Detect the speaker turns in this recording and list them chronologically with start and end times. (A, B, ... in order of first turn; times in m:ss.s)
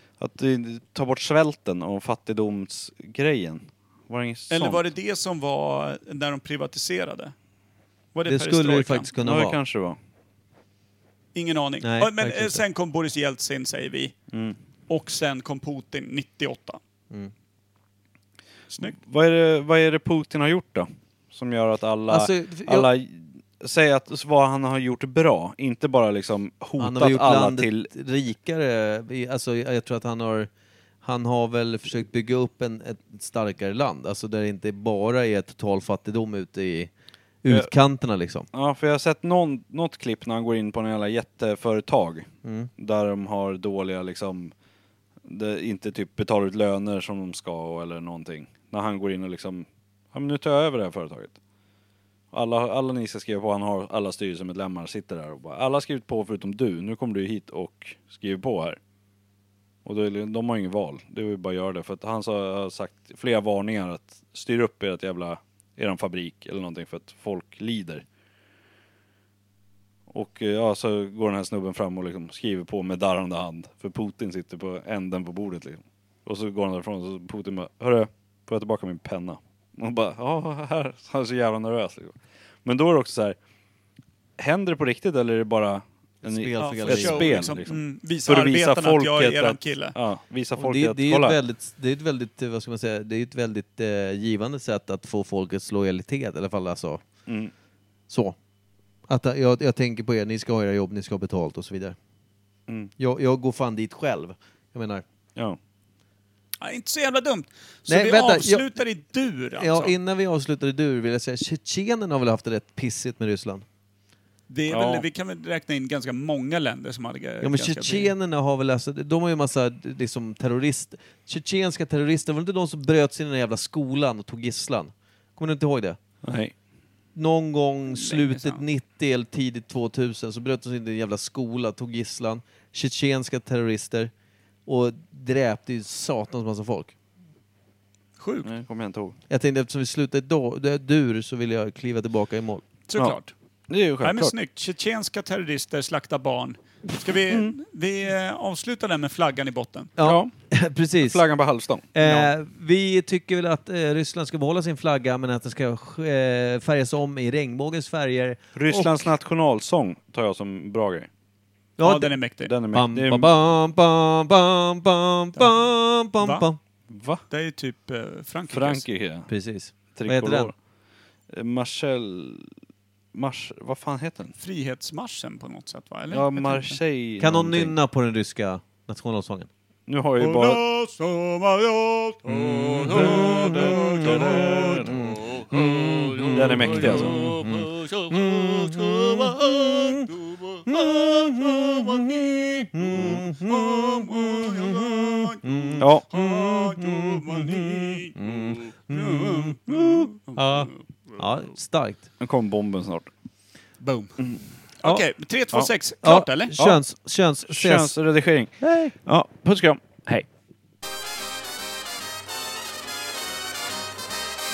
0:00.2-0:04.8 A
0:04.5-0:07.3 B
0:08.1-0:09.1 B
0:08.3-0:09.6 C
0:09.2-0:10.0 A
0:11.3-0:14.2 B
0:11.8-0:12.6 C
0:14.3-0:14.6 A
0:14.9-0:16.8 B
0:18.7-0:19.0 B
0:18.8-0:27.9 A
0:22.1-0:22.9 C
0:26.8-0:30.5 C
0:31.0-0:36.9 C
0:37.4-0:38.5 C
0:38.5-0:44.5 A
0:42.4-0:42.7 C
0:45.2-0:51.4 A
0:52.3-0:58.8 A
0:59.8-1:08.0 A
1:10.1-1:23.4 A
1:24.4-1:31.4 A
1:26.2-1:27.5 C
1:26.6-1:30.0 B
1:30.6-1:37.0 C
1:37.2-1:37.5 A
1:38.1-1:38.4 C
1:39.1-1:42.0 C
1:43.0-1:45.0 C
1:46.6-1:49.9 B
1:47.9-1:48.7 C
1:49.5-1:53.6 C
1:54.5-1:58.1 B
1:54.7-1:55.0 A
1:57.4-2:06.0 C
2:06.2-2:06.5 A
2:07.1-2:14.1 C
2:07.9-2:08.6 B
2:14.6-2:16.9 C
2:18.2-2:18.5 B
2:18.4-2:19.1 A
2:19.3-2:22.6 C
2:22.9-2:23.3 B
2:23.7-2:24.3 A
2:24.0-2:29.9 B
2:30.0-2:31.2 C
2:30.0-2:30.3 A
2:31.0-2:31.8 A
2:31.9-2:39.1 C
2:32.0-2:32.3 B
2:38.5-2:41.1 A
2:41.8-2:42.2 C
2:41.8-2:42.5 B
2:42.5-2:43.3 A
2:42.7-2:46.6 C
2:46.2-2:46.4 B
2:46.9-2:47.2 A
2:47.3-2:48.8 B
2:48.5-2:49.3 A
2:49.3-2:50.5 C
2:49.9-2:50.5 A
2:51.3-2:52.5 A
2:53.1-2:54.3 A
2:54.4-2:56.8 B
2:56.1-2:57.7 A
2:57.2-2:59.5 C
2:59.9-3:00.6 A
3:00.2-3:10.6 B
3:02.3-3:04.9 A
3:02.6-3:22.0 C
3:06.3-3:07.2 A
3:12.9-3:13.2 A
3:13.5-3:15.4 B
3:15.8-3:16.1 A
3:16.1-3:20.8 B
3:22.2-3:23.1 A
3:23.8-3:24.2 B
3:24.2-3:24.4 A
3:24.8-3:26.5 B
3:26.0-3:28.9 C
3:27.5-3:30.3 A